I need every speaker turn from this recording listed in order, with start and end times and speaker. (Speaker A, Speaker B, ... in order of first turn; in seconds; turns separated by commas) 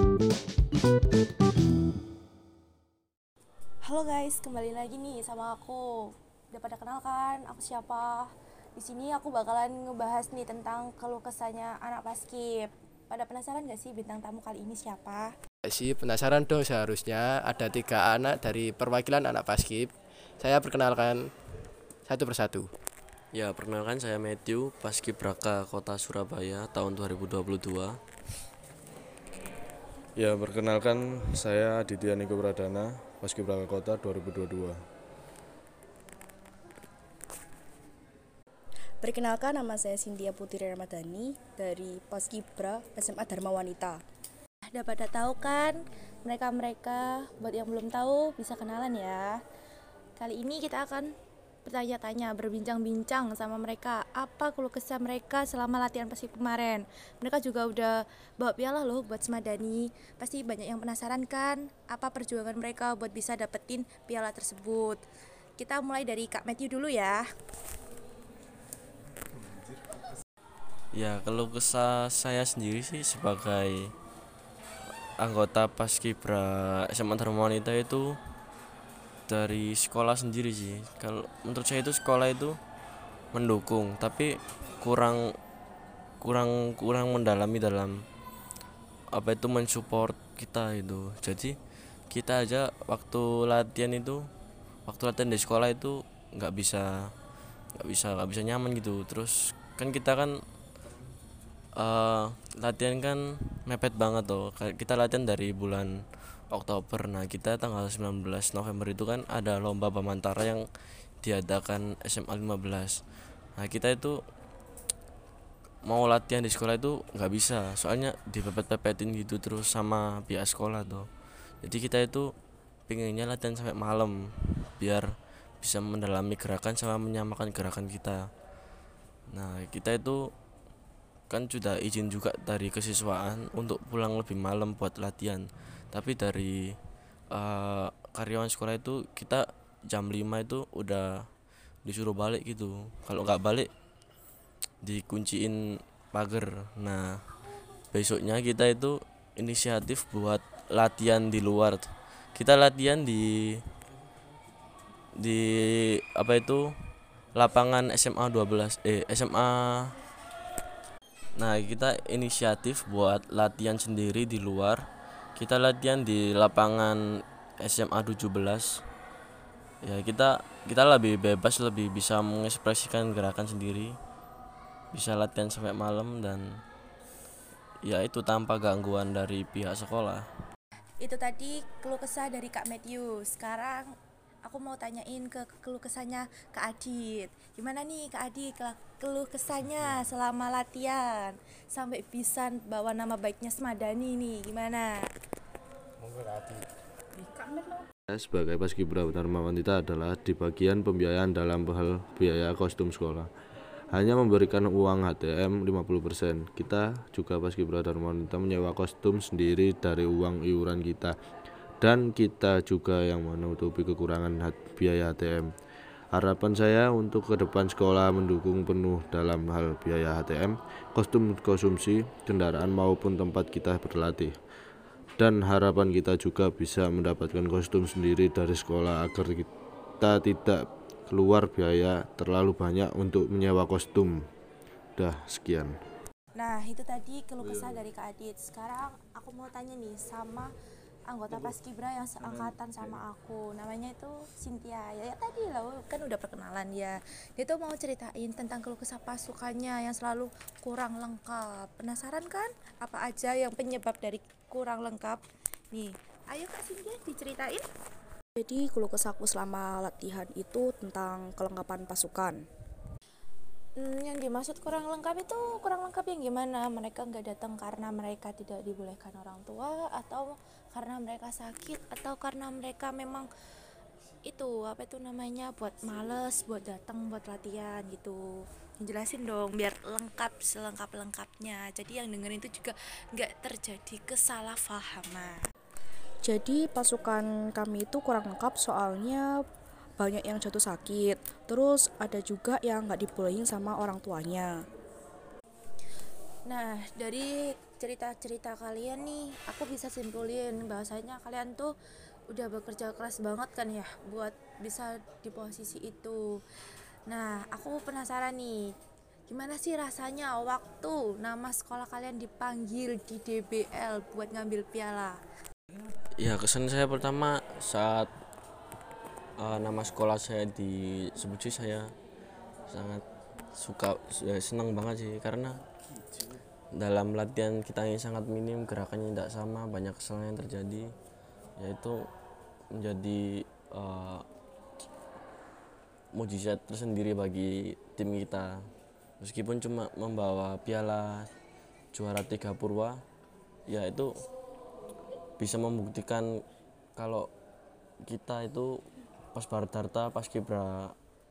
Speaker A: 3.8-5.8, Speaker A: 6.5-15.3, Speaker B: 15.7-21.3, Speaker B: 22.1-22.7, Speaker C: 23.3-28.0, Speaker D: 30.2-34.8, Speaker E: 39.0-44.0, Speaker A: 44.7-49.4, Speaker A: 50.2-51.1, Speaker A: 51.6-65.0, Speaker A: 65.6-67.3, Speaker C: 70.9-73.9, Speaker C: 75.2-78.2, Speaker C: 79.3-82.6, Speaker C: 83.3-85.3, Speaker C: 86.2-88.0, Speaker C: 89.1-91.6, Speaker C: 92.1-94.3, Speaker C: 94.9-97.1, Speaker C: 97.8-100.4, Speaker C: 101.8-106.0, Speaker C: 106.5-110.7, Speaker C: 111.2-113.0, Speaker C: 113.6-114.2, Speaker C: 115.9-121.1, Speaker C: 121.6-122.3, Speaker C: 122.9-125.1, Speaker C: 125.6-128.3, Speaker C: 129.3-130.3, Speaker C: 131.3-136.8, Speaker C: 137.3-141.2, Speaker C: 141.8-143.7, Speaker C: 144.8-145.6, Speaker C: 146.1-147.1, Speaker C: 147.9-153.6, Speaker C: 155.2-156.7, Speaker C: 157.3-159.9, Speaker C: 161.4-164.8, Speaker C: 165.4-167.0, Speaker C: 167.6-168.8, Speaker C: 169.8-174.0, Speaker C: 174.9-176.6, Speaker C: 177.8-180.3, Speaker A: 181.0-183.9, Speaker A: 184.5-195.0, Speaker E: 197.3-197.5, Speaker D: 198.1-203.3, Speaker D: 203.9-211.2, Speaker D: 211.8-215.5, Speaker D: 216.1-224.3, Speaker D: 225.2-229.5, Speaker D: 230.0-234.2, Speaker D: 235.0-235.7, Speaker A: 236.4-240.5, Speaker A: 241.1-257.7, Speaker E: 258.4-262.4, Speaker A: 263.8-273.3, Speaker A: 274.3-278.2, Speaker A: 278.8-285.4, Speaker E: 286.2-289.3, Speaker E: 290.0-294.6, Speaker A: 296.5-301.7, Speaker A: 302.3-306.4, Speaker A: 307.1-308.7, Speaker A: 309.3-315.2, Speaker C: 316.2-318.1, Speaker C: 319.4-321.9, Speaker C: 322.7-323.0, Speaker C: 323.6-325.6, Speaker C: 326.8-330.9, Speaker C: 331.6-332.1, Speaker C: 332.8-334.2, Speaker C: 336.1-338.7, Speaker C: 339.2-341.3, Speaker C: 341.9-343.0, Speaker C: 343.7-344.1, Speaker C: 345.4-346.3, Speaker C: 347.0-347.3, Speaker C: 348.1-348.8, Speaker C: 349.3-351.0